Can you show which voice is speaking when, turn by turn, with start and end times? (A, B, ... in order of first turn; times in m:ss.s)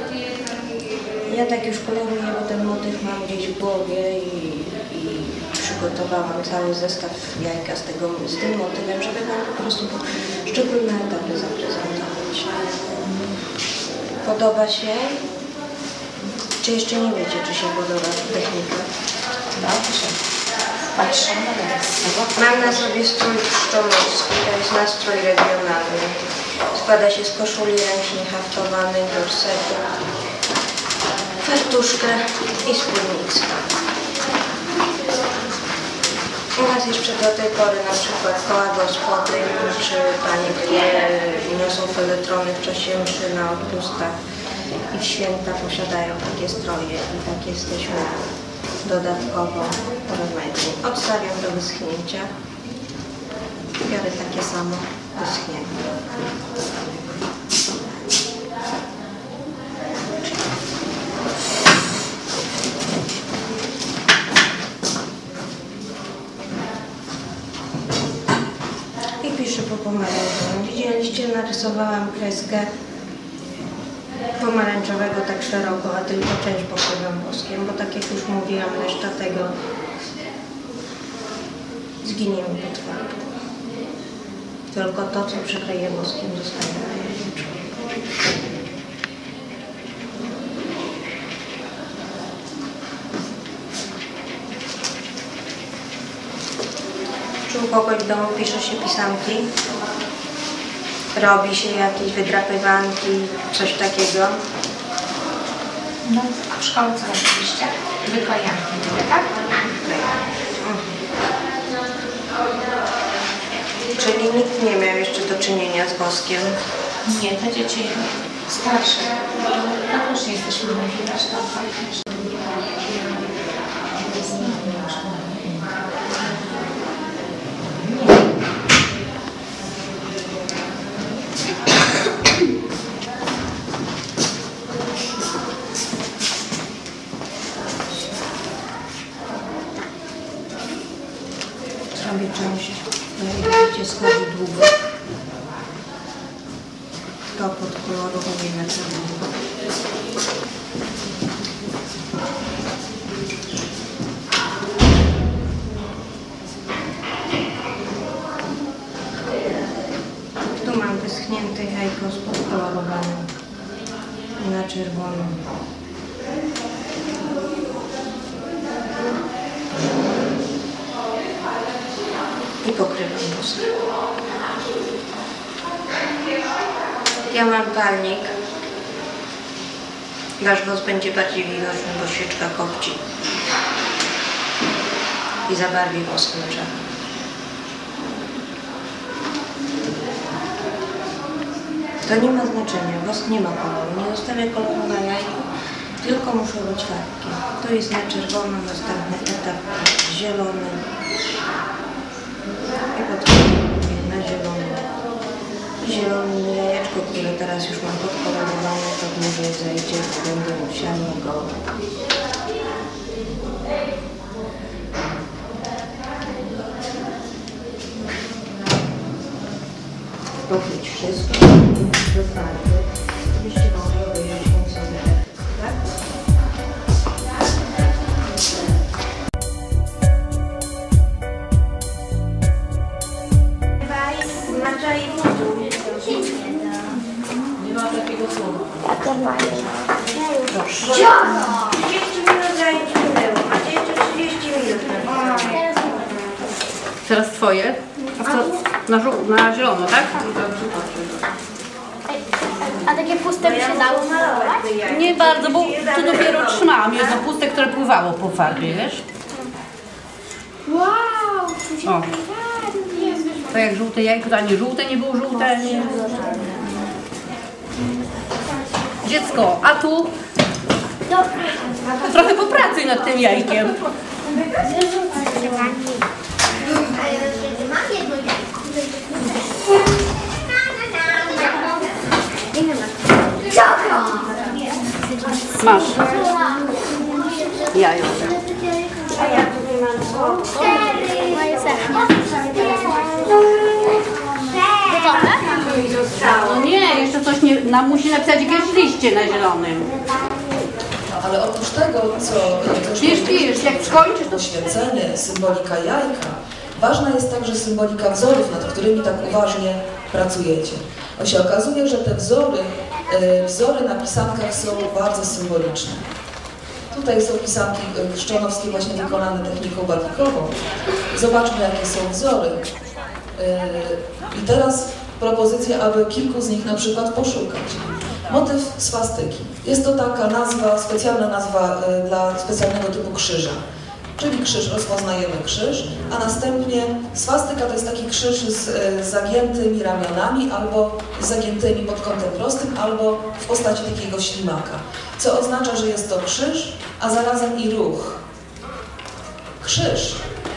0:01.3-0:12.9 A
0:14.2-0:15.3 A
0:16.6-0:18.9 A
0:19.6-0:20.2 B
0:21.0-0:22.8 B
0:22.3-0:30.0 A
0:31.4-0:33.6 A
0:36.6-0:44.2 A
0:44.9-0:48.3 A
0:48.8-0:52.3 A
0:53.8-0:55.8 A
1:09.2-1:12.7 A
1:14.4-1:19.5 A
1:22.0-1:23.1 A
1:24.7-1:27.7 A
1:37.5-1:39.5 A
1:41.1-1:44.4 A
1:46.0-1:49.3 B
1:50.6-1:51.0 A
1:54.0-1:56.6 A
1:57.0-2:02.4 B
2:04.0-2:05.7 B
2:21.9-2:24.7 A
2:27.4-2:29.3 A
2:40.6-2:43.3 A
2:44.4-2:45.4 A
2:52.6-2:53.7 A
2:57.3-2:58.3 A
3:00.4-3:03.1 A
3:05.5-3:06.7 A
3:12.0-3:15.5 A
3:16.0-3:20.8 A
3:22.9-3:24.9 A
3:25.8-3:31.7 A
3:40.5-3:45.8 A
3:54.2-3:56.4 A
3:57.7-3:58.6 C
3:58.9-4:00.5 D
4:00.5-4:01.0 C
4:00.9-4:05.6 A
4:05.5-4:06.0 D
4:07.0-4:10.7 C
4:12.6-4:14.4 D
4:13.4-4:16.8 A
4:14.8-4:19.0 C
4:20.7-4:23.3 D
4:21.8-4:22.1 C
4:23.5-4:26.1 C
4:25.8-4:26.5 D
4:29.0-4:30.1 C
4:32.0-4:33.8 C
4:34.5-4:36.1 D
4:37.1-4:38.1 D
4:42.5-4:43.7 A
4:45.6-4:46.1 C
4:45.7-4:46.4 D
4:47.7-4:48.4 C
4:49.2-4:51.1 A
4:51.0-4:52.8 D
4:55.0-4:55.4 C
4:55.4-4:56.6 A
4:56.1-4:59.9 C
5:01.1-5:16.0 E
5:03.0-5:04.4 C
5:16.9-5:20.6 E
5:21.1-5:22.7 E
5:23.4-5:33.6 E
5:34.2-5:48.2 E
5:49.6-5:50.2 E